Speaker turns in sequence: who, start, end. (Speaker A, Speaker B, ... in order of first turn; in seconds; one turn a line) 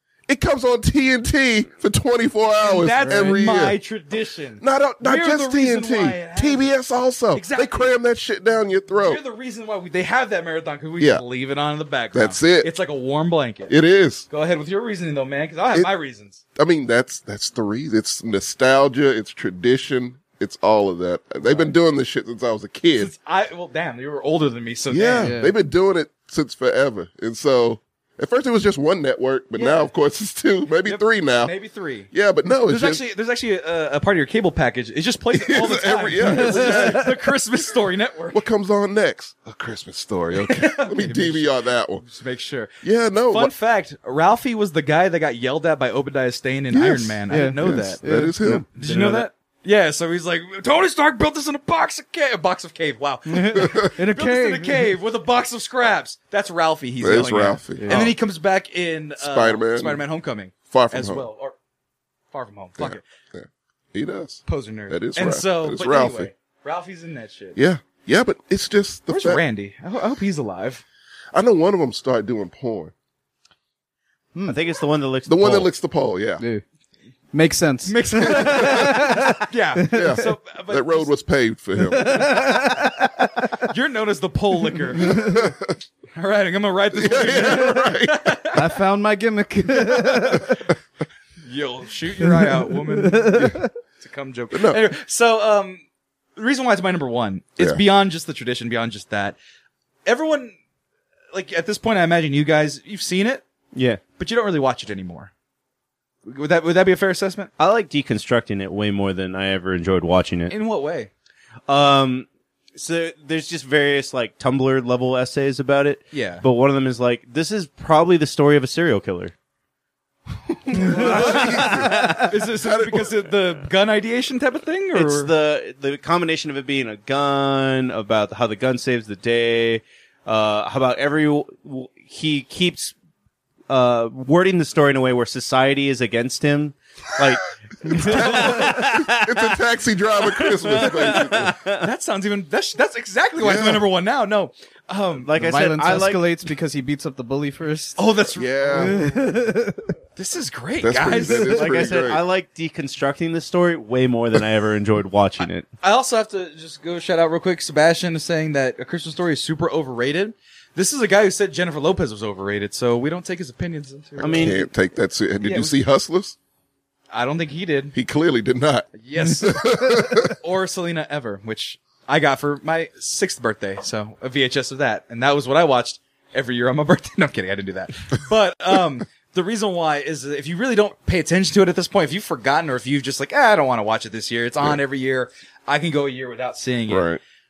Speaker A: 0.3-3.8
Speaker B: 2.6-6.7
Speaker A: 4.6-9.2
Speaker B: 7.3-7.9
Speaker B: 8.9-13.7
Speaker A: 12.1-12.7
Speaker A: 13.7-14.2
Speaker B: 14.3-16.4
Speaker A: 16.6-23.1
Speaker B: 21.5-21.7
Speaker B: 23.0-25.3
Speaker A: 24.9-31.5
Speaker C: 25.2-25.5
Speaker B: 29.5-29.9
Speaker B: 30.8-32.1
Speaker A: 32.1-33.0
Speaker B: 32.7-38.4
Speaker A: 35.3-37.2
Speaker C: 36.3-37.0
Speaker A: 38.3-42.0
Speaker B: 40.3-42.7
Speaker A: 42.8-43.5
Speaker B: 43.3-48.0
Speaker A: 46.7-48.7
Speaker C: 47.3-48.6
Speaker B: 48.7-61.5
Speaker D: 48.8-49.3
Speaker C: 53.3-54.9
Speaker A: 57.0-58.1
Speaker C: 57.8-58.1
Speaker A: 59.2-60.0
Speaker A: 60.7-61.2
Speaker B: 62.3-63.0
Speaker A: 62.8-66.3
Speaker B: 64.5-67.6
Speaker A: 67.5-69.4
Speaker B: 69.1-70.8
Speaker A: 71.3-72.9
Speaker D: 74.4-75.7
Speaker A: 75.2-76.4
Speaker C: 77.3-79.3
Speaker B: 77.9-81.1
Speaker A: 78.2-78.9
Speaker C: 79.9-80.2
Speaker A: 79.9-82.3
Speaker C: 81.9-83.2
Speaker B: 83.7-85.3
Speaker C: 85.0-85.3
Speaker A: 85.0-85.7
Speaker B: 86.1-88.7
Speaker A: 86.9-88.3
Speaker C: 88.5-90.6
Speaker B: 89.8-90.6
Speaker B: 91.5-93.5
Speaker C: 93.1-93.5
Speaker B: 94.0-95.8
Speaker A: 94.5-94.8
Speaker B: 96.3-99.3
Speaker B: 100.0-100.5
Speaker B: 101.3-103.4
Speaker D: 103.7-104.0
Speaker B: 104.2-105.3
Speaker B: 106.2-107.5
Speaker D: 107.6-110.5
Speaker B: 110.5-111.1
Speaker D: 111.7-119.3
Speaker B: 116.1-116.4
Speaker A: 120.7-123.3
Speaker D: 120.8-122.2
Speaker B: 120.9-125.3
Speaker D: 124.9-132.9
Speaker D: 133.7-139.6
Speaker A: 137.9-141.5
Speaker D: 140.3-141.8
Speaker B: 141.1-145.3
Speaker A: 143.4-143.9
Speaker D: 145.2-146.3
Speaker C: 145.3-148.0
Speaker B: 147.9-149.1
Speaker A: 148.3-149.0
Speaker C: 148.8-149.9
Speaker B: 150.2-151.8
Speaker A: 150.8-152.2
Speaker D: 151.4-155.7
Speaker B: 155.8-164.6
Speaker A: 164.2-166.3
Speaker D: 164.2-164.6
Speaker B: 165.4-165.8
Speaker B: 167.1-167.9
Speaker A: 167.9-170.3
Speaker B: 169.0-187.1
Speaker A: 186.9-187.2